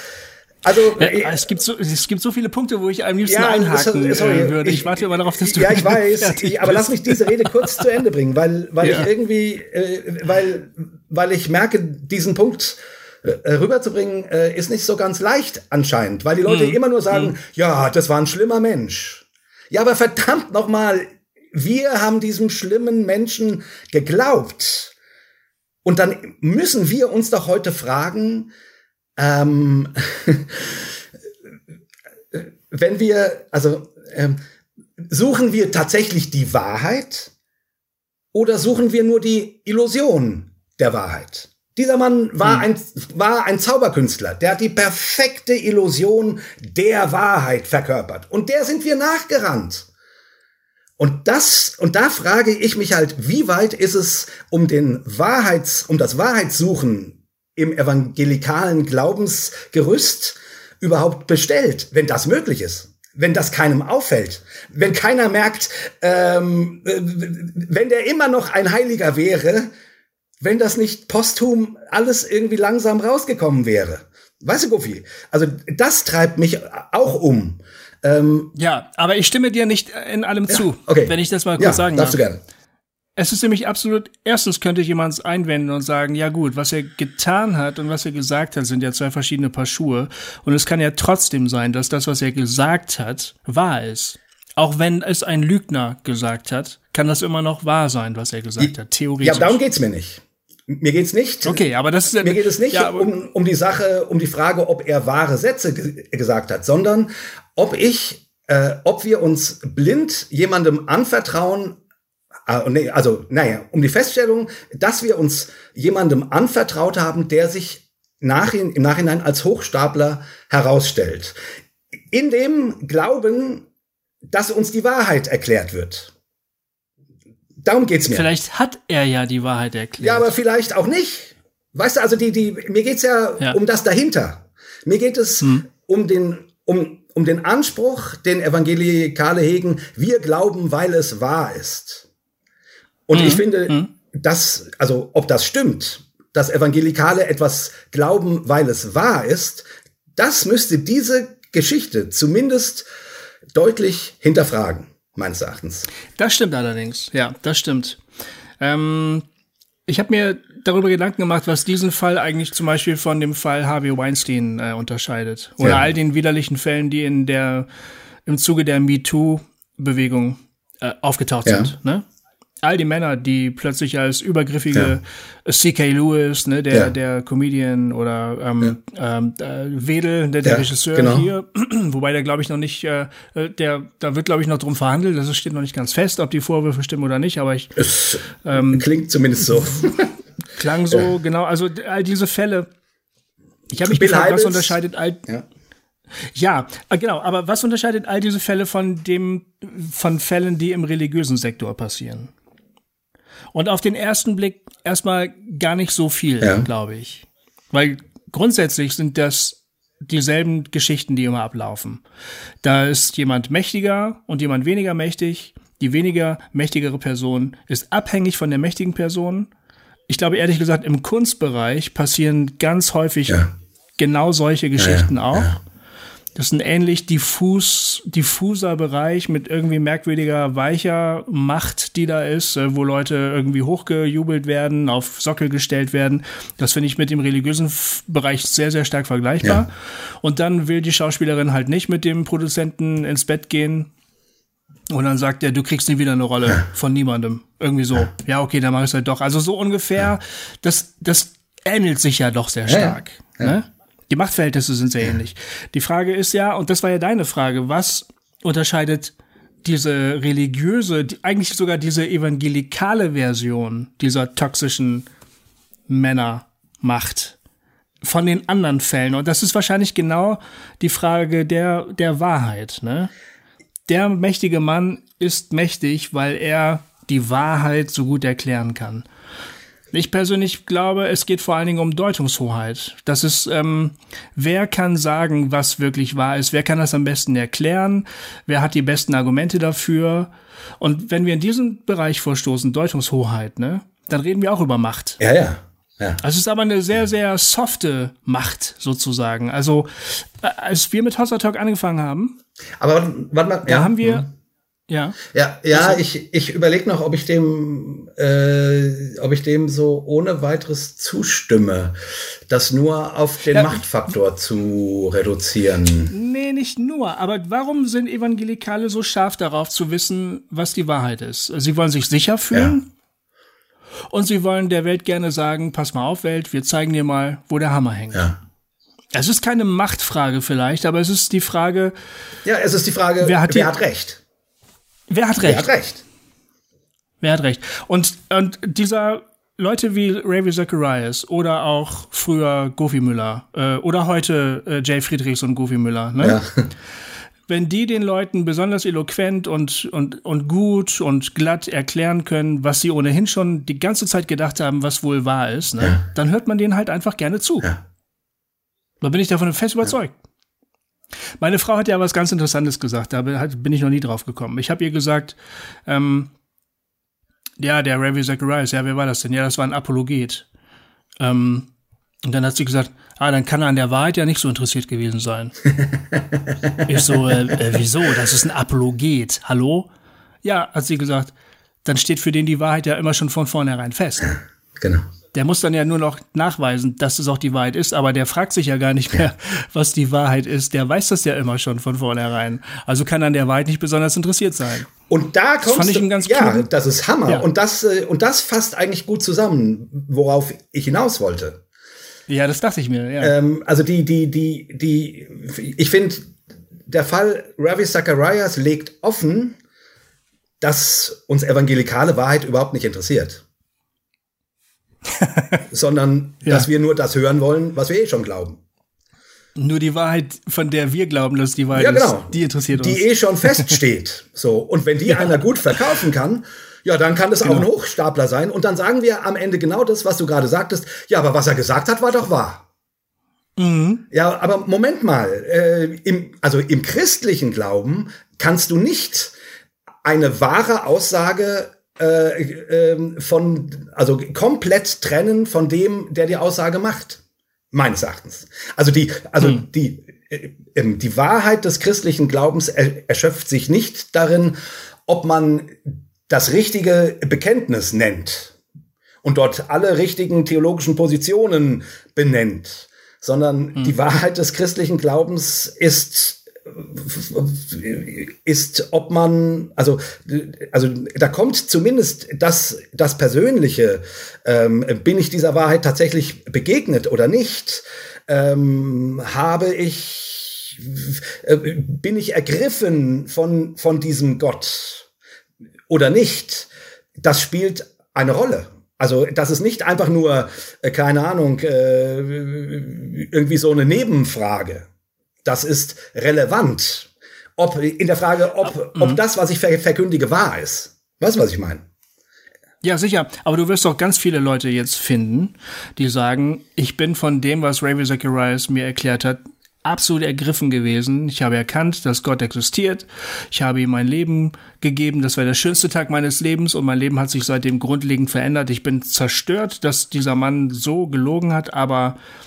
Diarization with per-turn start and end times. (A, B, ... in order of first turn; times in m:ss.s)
0:00.6-0:01.5 A
0:01.0-0:07.8 B
0:03.2-0:24.9 A
0:08.8-0:09.1 B
0:16.4-0:17.3 B
0:25.8-0:28.5 A
0:29.2-0:30.9 A
0:32.3-0:34.4 A
0:35.0-0:37.3 A
0:38.3-0:49.9 A
0:51.0-1:09.7 A
1:10.4-1:18.5 A
1:18.6-1:22.2 B
1:20.5-1:22.4 A
1:23.2-1:39.6 B
1:38.6-1:41.6 A
1:41.5-1:43.1 B
1:42.2-1:51.8 A
1:52.5-2:01.4 A
2:02.1-2:03.7 A
2:04.3-2:06.1 A
2:07.6-2:08.3 A
2:08.1-2:10.3 B
2:10.0-2:22.1 A
2:15.4-2:15.7 B
2:23.1-2:29.6 A
2:23.1-2:23.9 B
2:30.2-2:32.8 A
2:33.5-2:35.9 A
2:36.2-2:38.0 B
2:38.6-2:39.2 B
2:39.9-2:47.7 B
2:48.3-2:52.0 B
2:51.4-2:51.7 A
2:52.6-3:08.9 B
3:00.4-3:01.3 A
3:07.8-3:10.1 A
3:10.6-3:12.7 B
3:13.7-3:15.2 B
3:13.8-3:14.8 A
3:16.3-3:22.3 B
3:23.5-3:32.0 B
3:32.6-3:39.5 B
3:40.1-3:43.4 B
3:44.0-3:45.6 B
3:44.8-3:45.6 A
3:46.4-4:03.9 B
4:04.9-4:25.1 B
4:12.7-4:13.6 A
4:25.9-4:27.4 B
4:28.0-4:33.1 B
4:33.9-4:39.1 B
4:39.9-4:55.2 B
4:55.2-4:56.2 A
4:56.2-5:02.4 B
5:02.8-5:04.3 A
5:03.7-5:04.3 B
5:04.9-5:05.2 B
5:05.3-5:12.0 A
5:05.7-5:06.0 B
5:12.5-5:16.1 A
5:16.1-5:22.9 B
5:22.5-5:22.8 A
5:24.1-5:28.3 B
5:29.1-5:31.9 B
5:32.4-5:34.2 A
5:33.2-5:33.7 B
5:35.1-5:35.7 B
5:35.4-5:36.0 A
5:37.2-5:46.4 B
5:46.2-5:46.5 A
5:47.5-5:57.7 B
5:59.0-6:00.1 B
6:01.4-6:06.3 B
6:07.6-6:10.5 B
6:11.2-6:11.7 B
6:12.2-6:15.6 B
6:15.8-6:17.6 A
6:16.9-6:19.9 B
6:20.4-6:21.3 B
6:21.8-6:24.4 B
6:24.8-6:25.0 A
6:25.3-6:34.9 B
6:35.1-6:41.6 A
6:35.6-6:36.7 B
6:42.3-6:43.4 B
6:43.2-6:46.4 A
6:46.9-6:49.6 A
6:50.6-6:53.4 A
6:55.1-6:55.6 B
6:55.7-6:58.6 A
6:59.6-7:03.8 B
7:01.7-7:12.6 A
7:05.1-7:05.8 B
7:13.6-7:14.0 B
7:14.1-7:19.3 A
7:20.0-7:27.2 A
7:27.7-7:34.6 A
7:35.1-7:38.6 A
7:39.2-8:05.1 A
8:05.9-8:06.7 A
8:07.2-8:14.9 A
8:15.4-8:21.8 A
8:19.0-8:19.2 B
8:22.8-8:42.2 B